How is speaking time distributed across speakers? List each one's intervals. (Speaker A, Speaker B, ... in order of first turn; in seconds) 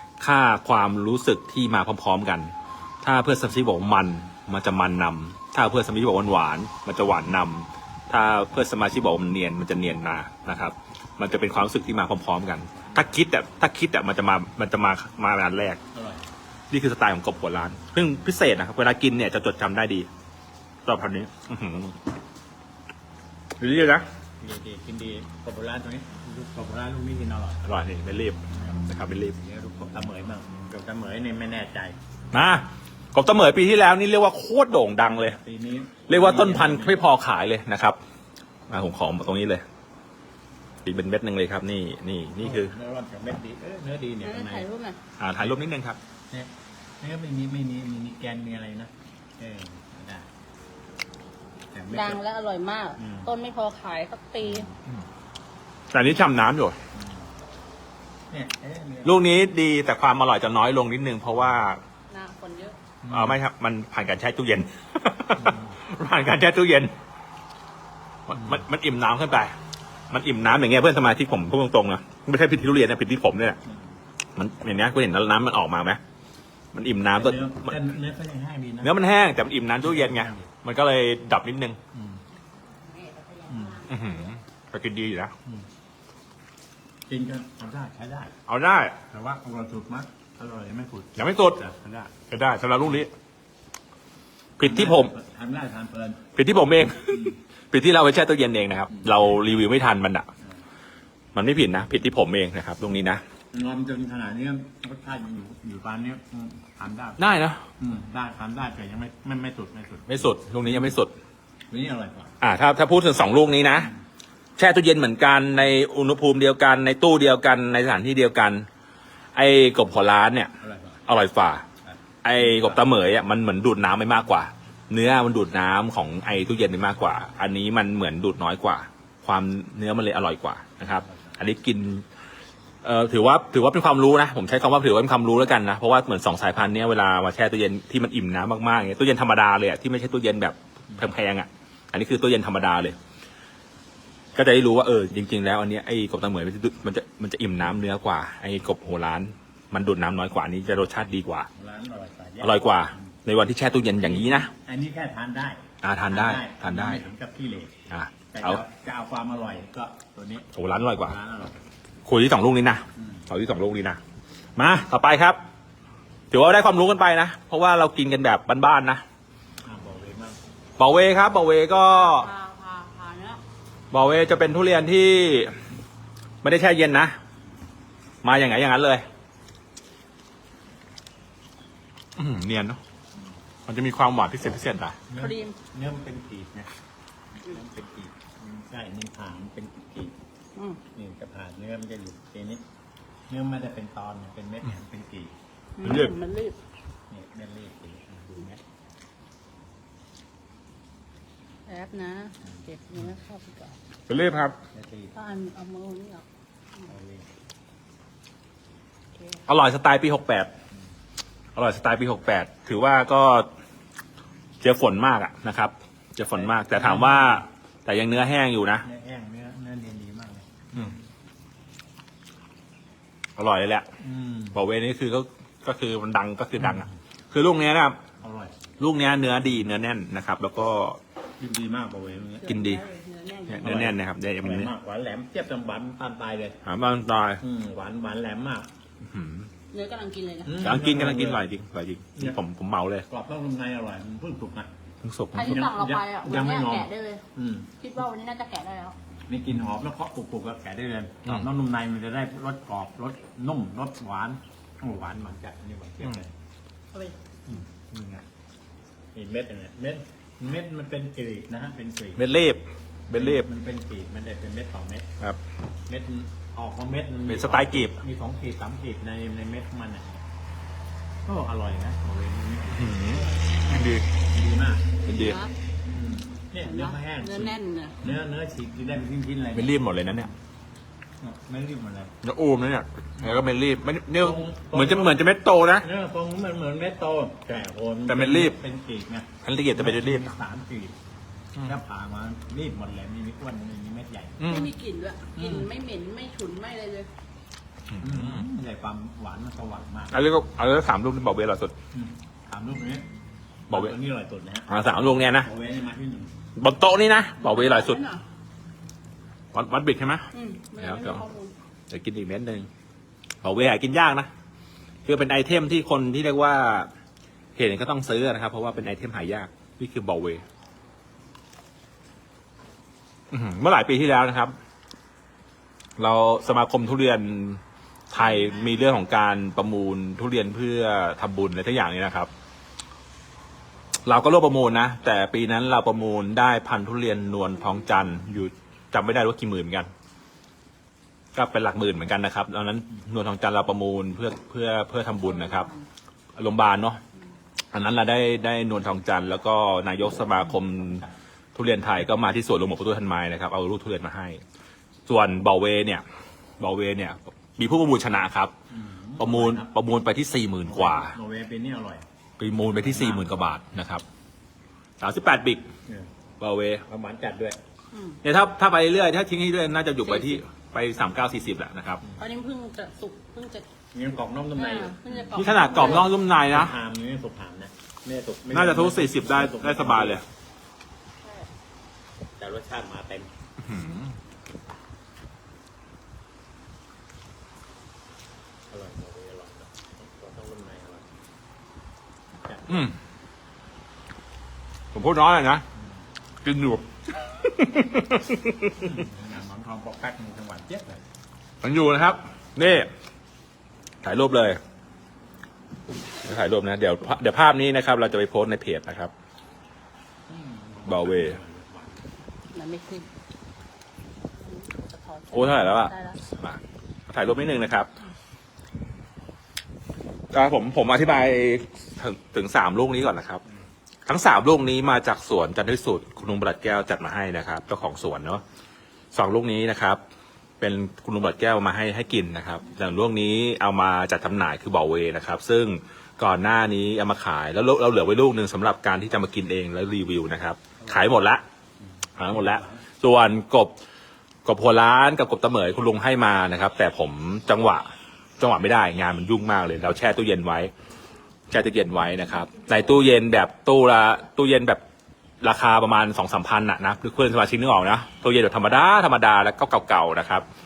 Speaker A: 0.2-15.8, 16.7-20.1, 20.9-22.0, 23.6-24.1, 27.6-29.4, 32.3-35.4, 36.1-38.0, 38.7-39.6, 40.9-42.8, 45.2-46.0, 55.9-56.8, 59.0-61.8, 63.0-66.9, 68.3-69.5, 70.1-73.6, 74.4-76.0, 76.7-77.8, 78.8-81.8, 83.9-85.3, 88.5-89.0, 91.2-91.6, 92.3-93.1, 94.6-95.1, 96.4-100.3, 101.3-103.2, 107.2-107.6, 110.1-111.1, 112.4-113.9, 114.6-118.7, 119.3-120.5, 121.1-121.7, 122.2-132.1, 132.8-143.0, 144.3-151.5, 152.4-154.5, 155.8-157.0, 157.9-158.6, 160.5-161.2, 162.1-164.0, 164.6-165.4, 166.3-169.0, 170.8-172.3, 173.9-175.5, 176.4-177.2, 178.2-179.1, 182.2-182.8, 183.7-185.0, 195.8-196.2, 204.1-204.6, 209.5-210.5, 211.6-213.5, 214.6-218.8, 223.4-223.9, 224.5-228.0, 228.8-231.0, 232.4-232.8, 233.5-234.7, 236.7-237.4, 239.1-239.5, 240.6-243.1, 245.0-245.7, 257.9-258.2, 262.2-263.5, 267.3-268.0, 272.7-274.1, 275.1-275.4, 279.6-280.3, 282.2-285.9, 288.1-288.6, 289.4-290.3, 294.4-294.7, 298.0-298.4, 300.1-301.8, 303.7-303.9, 304.7-305.5, 306.6-308.0, 309.5-311.2, 311.9-312.7, 313.4-314.3, 315.1-316.9, 317.6-320.4, 323.3-324.5, 326.0-332.3, 334.1-339.9, 341.3-345.7, 346.4-347.0, 347.7-354.4, 355.1-356.0, 356.6-358.5, 359.2-361.2, 362.4-364.0, 365.0-365.6, 366.4-366.8, 368.2-372.0, 375.3-376.8, 378.5-380.2, 383.6-384.2, 392.7-393.0, 394.9-395.6, 396.4-398.9, 401.6-402.9, 404.0-404.6, 406.2-409.1, 410.9-411.4, 415.3-417.9, 420.3-423.4, 424.1-428.4, 429.1-430.0, 430.6-441.4, 442.2-443.7, 444.4-447.9, 448.4-450.7, 451.5-454.8, 455.4-460.4
Speaker B: 15.9-16.3, 24.4-27.6, 28.6-32.0, 35.2-37.0, 42.4-44.7, 46.3-50.3, 51.7-52.2, 53.0-53.3, 56.9-57.3, 58.3-59.3, 65.4-65.8, 77.2-78.9, 79.8-80.5, 81.9-82.2, 83.5-83.8, 87.1-88.3, 89.1-92.2, 94.6-96.3, 103.5-107.2, 107.8-110.9, 111.7-112.3, 120.6-121.0, 121.8-122.8, 130.8-131.3, 151.6-152.8, 154.1-157.7, 158.3-161.6, 163.0-163.2, 169.7-170.4, 185.1-186.7, 187.4-190.1, 190.9-192.6, 193.3-195.3, 197.1-198.6, 204.7-205.1, 206.9-207.3, 216.4-217.4, 218.8-220.9, 224.0-224.6, 228.2-228.7, 231.4-232.6, 233.6-236.6, 237.4-238.7, 240.4-241.4, 243.1-244.7, 245.4-247.7, 249.3-256.3, 257.5-257.8, 259.1-262.2, 263.1-265.1, 265.9-270.2, 271.3-273.4, 274.2-275.0, 275.9-280.3, 281.2-282.1, 284.2-285.2, 285.8-291.0, 291.6-294.5, 295.4-295.7, 298.0-300.2, 301.9-303.1, 303.7-306.4, 358.7-359.7, 360.7-362.0, 362.7-363.3, 366.9-367.6, 373.9-380.2, 382.4-383.3, 388.7-391.1, 392.4-392.9, 398.7-401.0, 410.3-412.1, 440.8-441.2, 441.8-442.8
Speaker C: 44.2-45.0, 51.9-54.7, 62.1-62.8, 82.8-84.3, 171.7-173.4, 185.2-185.6, 190.6-190.8, 195.8-196.6, 201.7-203.8, 205.1-206.2, 232.4-233.8, 239.7-240.7, 245.3-247.2, 247.8-249.0, 275.1-275.5, 276.6-278.0, 294.4-297.1, 307.4-308.2, 310.3-311.5, 345.1-345.9, 367.9-368.2, 370.1-370.4, 372.2-373.7, 374.6-376.1, 412.5-413.1, 414.4-416.2